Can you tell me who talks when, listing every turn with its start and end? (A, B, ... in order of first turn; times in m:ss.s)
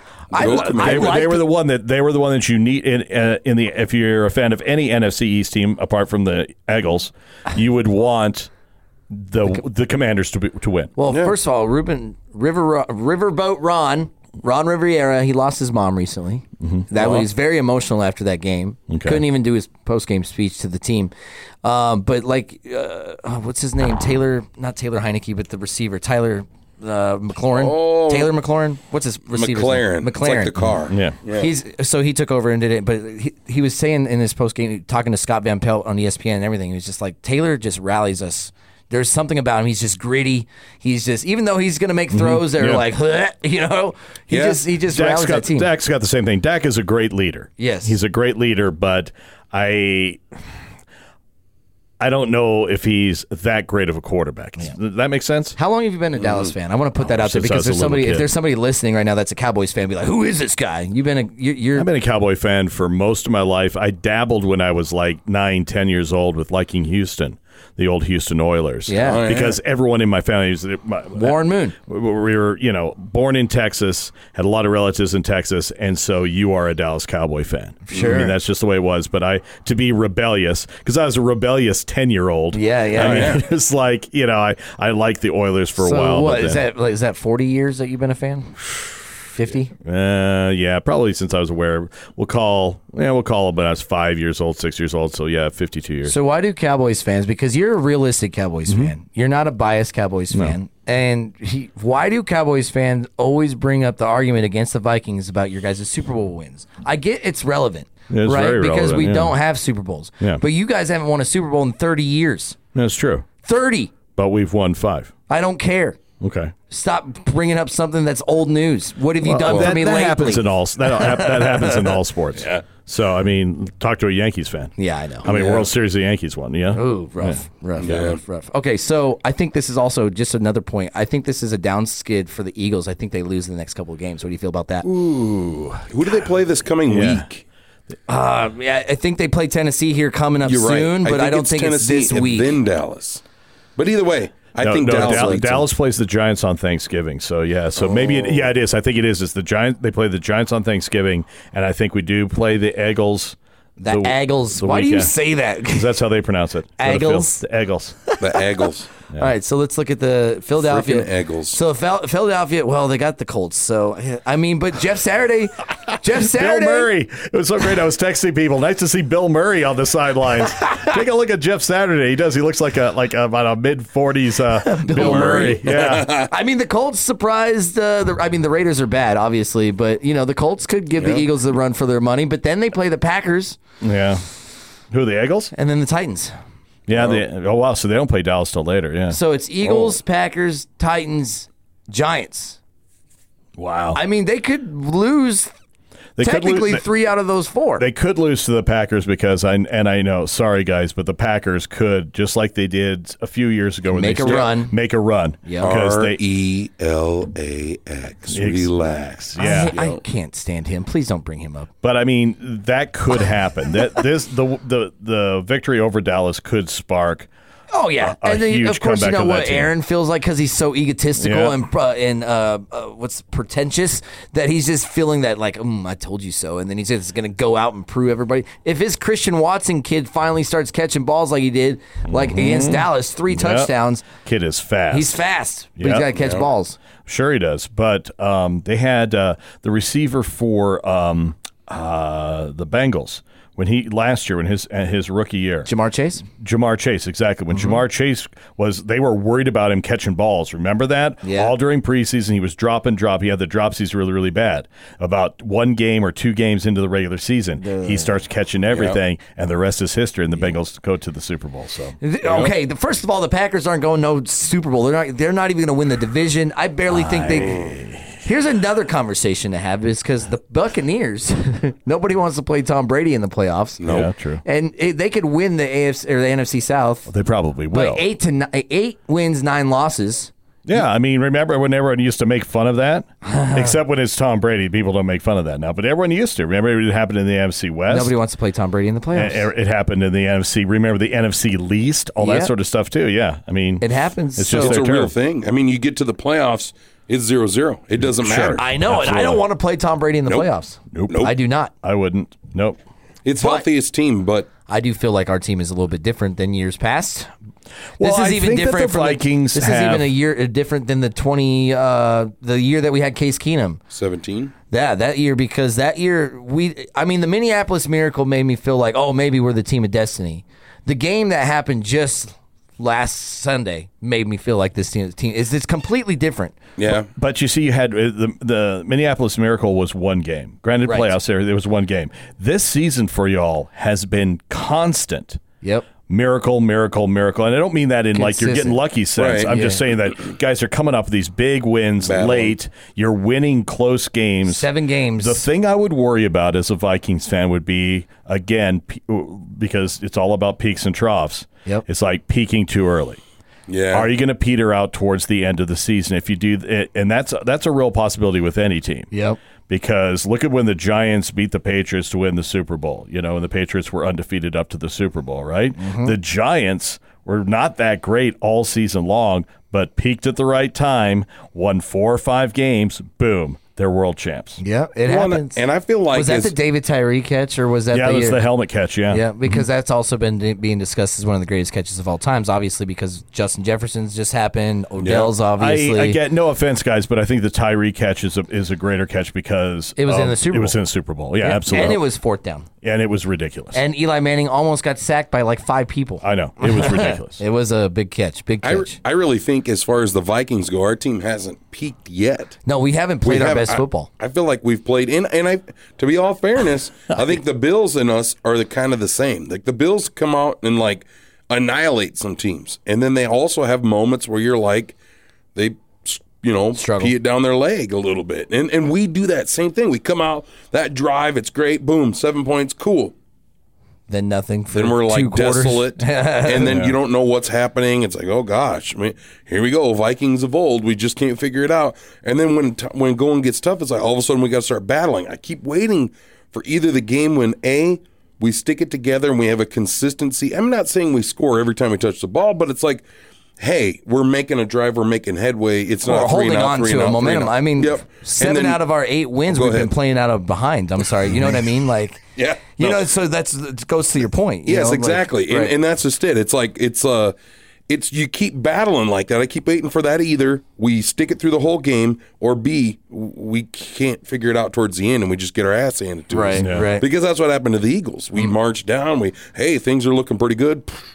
0:00.3-0:01.4 A
0:00.3-0:01.3 B
0:00.4-0:08.5 C
0:09.1-0:10.9 C
0:11.0-0:21.1 A
0:11.1-0:11.3 B
0:16.6-0:16.9 C
0:17.0-0:17.3 B
0:18.9-0:19.2 C
0:21.6-0:30.5 A
0:27.5-0:28.3 B
0:29.3-0:31.5 B
0:30.9-0:31.2 C
0:31.3-0:45.7 A
0:42.1-0:42.8 C
0:44.3-0:44.6 B
0:44.9-0:50.2 C
0:47.6-0:48.0 A
0:52.0-0:55.6 C
0:55.6-1:01.9 A
0:56.2-0:56.5 B
0:57.0-0:58.3 C
1:01.8-1:26.6 C
1:08.9-1:09.2 A
1:08.9-1:09.6 B
1:11.2-1:11.8 A
1:17.9-1:18.3 A
1:17.9-1:18.2 B
1:22.5-1:23.3 A
1:23.0-1:23.4 B
1:25.8-1:28.6 A
1:29.2-1:29.7 A
1:29.8-1:36.2 C
1:36.1-1:52.6 A
1:38.7-1:38.9 C
1:48.1-1:49.4 C
1:52.8-1:53.3 C
1:53.4-1:53.9 A
1:54.2-1:55.1 C
1:55.3-1:56.0 A
1:56.2-1:56.5 C
1:56.7-2:02.0 A
1:59.2-2:08.1 C
1:59.5-1:59.8 B
2:02.4-2:02.6 B
2:04.8-2:05.7 A
2:06.7-2:14.9 A
2:07.8-2:08.2 B
2:14.8-2:16.3 C
2:15.9-2:17.4 B
2:16.9-2:17.3 C
2:18.1-2:22.6 A
2:20.4-2:23.2 B
2:23.8-2:25.7 B
2:24.6-2:35.1 C
2:27.9-2:28.5 B
2:33.8-2:36.0 A
2:35.7-2:38.0 C
2:36.8-2:37.4 A
2:38.1-2:38.4 A
2:38.2-2:38.9 B
2:39.2-2:46.9 A
2:40.6-2:41.6 B
2:46.1-2:56.1 C
2:54.6-3:03.6 A
2:54.9-2:56.3 B
3:01.0-3:01.2 B
3:03.8-3:04.2 C
3:04.9-3:05.5 C
3:05.5-3:06.3 A
3:06.9-3:09.2 C
3:06.9-3:07.2 B
3:09.1-3:12.6 A
3:13.6-3:14.0 C
3:13.9-3:15.5 A
3:16.2-3:16.8 C
3:16.2-3:17.9 A
3:17.8-3:26.2 C
3:23.9-3:24.8 A
3:24.2-3:24.5 B
3:25.4-3:25.8 A
3:25.6-3:30.0 B
3:28.3-3:29.7 C
3:29.4-3:31.7 A
3:31.8-3:37.3 C
3:37.7-3:54.1 A
3:38.0-3:39.7 C
3:41.2-3:41.6 C
3:52.1-3:55.2 C
3:54.9-3:56.8 A
3:55.8-3:56.1 C
3:56.1-3:56.4 B
3:57.0-4:05.7 C
4:05.7-4:06.2 A
4:06.4-4:22.0 C
4:11.2-4:11.5 A
4:17.6-4:18.1 A
4:18.7-4:19.0 B
4:22.0-4:27.7 A
4:22.2-4:22.5 B
4:26.9-4:28.2 C
4:28.2-4:33.9 A
4:33.8-4:34.1 B
4:33.9-4:34.4 C
4:34.4-4:37.1 A
4:37.1-4:38.0 C
4:37.7-4:40.3 A
4:40.7-4:48.1 C
4:43.2-4:43.8 A
4:47.9-4:49.5 A
4:49.1-4:55.1 C
4:52.2-4:52.5 A
4:53.8-4:54.8 A
4:54.5-4:58.7 B
4:58.2-4:59.4 C
4:58.6-5:01.7 A
5:00.9-5:02.8 C
5:03.2-5:04.5 B
5:03.4-5:03.7 A
5:04.7-5:07.3 A
5:08.0-5:10.1 C
5:08.0-5:13.8 A
5:13.9-5:14.5 B
5:14.7-5:26.6 A
5:26.8-5:27.1 B
5:26.9-5:35.4 C
5:30.8-5:31.1 A
5:35.6-5:35.9 A
5:36.1-5:44.7 C
5:38.2-5:38.8 A
5:39.2-5:39.5 B
5:39.5-5:39.8 A
5:42.1-5:42.5 B
5:44.5-5:45.5 A
5:45.2-5:53.2 C
5:53.7-5:54.1 B
5:53.9-5:59.1 C
5:59.1-5:59.4 A
5:59.7-6:14.6 C
6:05.8-6:06.1 A
6:14.6-6:18.4 A
6:15.1-6:16.6 B
6:17.9-6:19.6 C
6:19.1-6:26.2 A
6:25.0-6:25.3 B
6:25.6-6:32.0 C
6:30.0-6:30.8 A
6:31.4-6:32.7 A
6:32.8-6:33.8 C
6:33.7-6:39.0 A
6:36.2-6:37.4 C
6:38.6-6:42.6 B
6:42.7-6:44.1 A
6:43.2-6:55.0 B
6:55.6-7:03.1 B
6:56.8-6:57.1 A
7:04.1-7:06.7 A
7:04.7-7:23.0 B
7:06.6-7:06.9 C
7:23.6-7:28.8 B
7:26.0-7:32.2 A
7:29.5-7:29.9 B
7:32.4-7:33.1 B
7:32.8-7:35.7 A
7:34.7-7:37.4 B
7:37.9-7:51.0 B
7:46.3-7:47.1 A
7:46.6-7:46.9 C